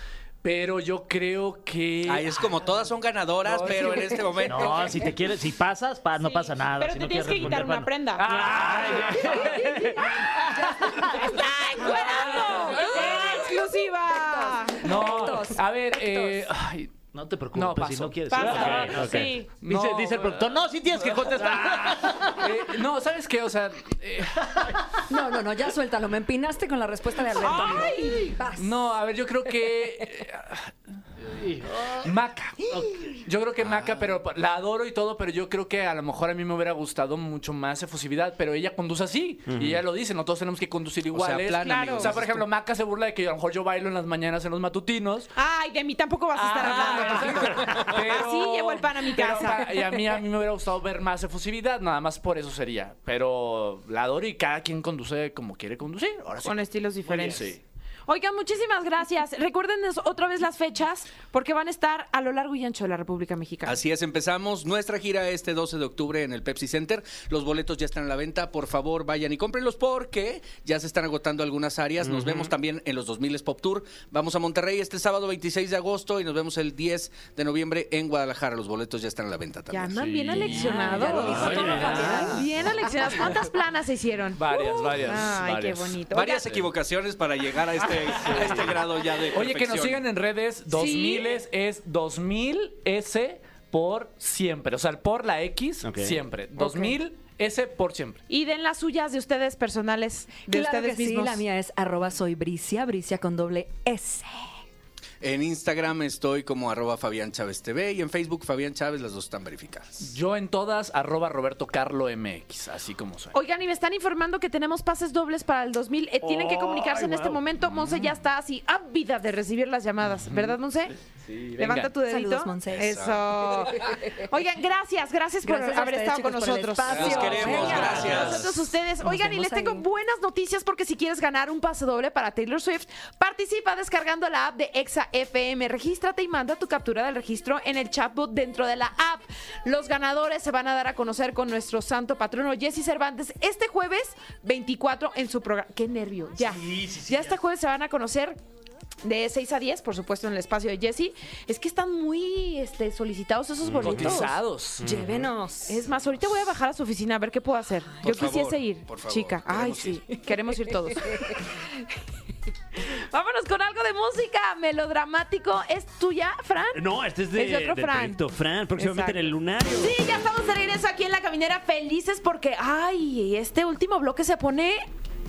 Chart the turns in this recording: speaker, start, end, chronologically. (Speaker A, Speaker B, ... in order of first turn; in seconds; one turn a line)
Speaker A: 0.4-2.5
Speaker B: 2.0-5.1
Speaker A: 3.5-4.6
Speaker C: 4.5-9.6
Speaker D: 6.2-8.3
Speaker A: 8.2-10.5
Speaker D: 10.0-10.3
Speaker E: 10.6-11.4
Speaker D: 11.0-14.9
Speaker A: 11.9-13.4
Speaker E: 12.7-13.6
Speaker E: 14.1-16.5
Speaker A: 14.8-16.9
Speaker C: 17.1-22.6
Speaker A: 17.5-24.8
Speaker D: 18.3-19.5
Speaker F: 18.7-19.3
Speaker E: 25.1-28.7
Speaker D: 27.4-28.4
Speaker A: 27.5-27.8
Speaker A: 28.6-30.7
Speaker C: 31.4-32.0
Speaker A: 31.9-45.3
Speaker B: 33.6-34.1
Speaker F: 39.5-39.8
Speaker B: 41.1-42.4
Speaker D: 41.6-42.1
Speaker D: 45.4-49.6
Speaker A: 46.4-57.6
Speaker D: 56.4-57.5
Speaker D: 58.1-63.8
Speaker B: 63.6-80.6
Speaker F: 72.0-72.5
Speaker D: 79.7-86.5
Speaker A: 80.0-83.4
Speaker E: 80.5-82.9
Speaker F: 81.2-82.4
Speaker A: 84.4-86.7
Speaker B: 86.1-90.0
Speaker A: 87.8-98.2
Speaker D: 90.7-91.4
Speaker F: 95.8-96.2
Speaker D: 98.3-101.4
Speaker E: 100.5-104.5
Speaker B: 105.2-110.2
Speaker A: 110.0-113.3
Speaker D: 113.3-121.0
Speaker F: 116.2-117.3
Speaker A: 120.3-120.6
Speaker A: 121.3-121.9
Speaker D: 121.6-148.4
Speaker E: 121.7-123.0
Speaker B: 122.7-123.5
Speaker E: 125.4-128.4
Speaker B: 126.9-128.6
Speaker E: 129.0-129.8
Speaker C: 146.4-147.4
Speaker D: 149.0-154.3
Speaker F: 153.6-155.3
Speaker A: 153.8-154.8
Speaker E: 154.8-155.8
Speaker D: 155.7-161.4
Speaker B: 158.0-160.0
Speaker D: 162.8-168.2
Speaker F: 166.7-169.9
Speaker D: 168.8-169.2
Speaker D: 169.8-174.9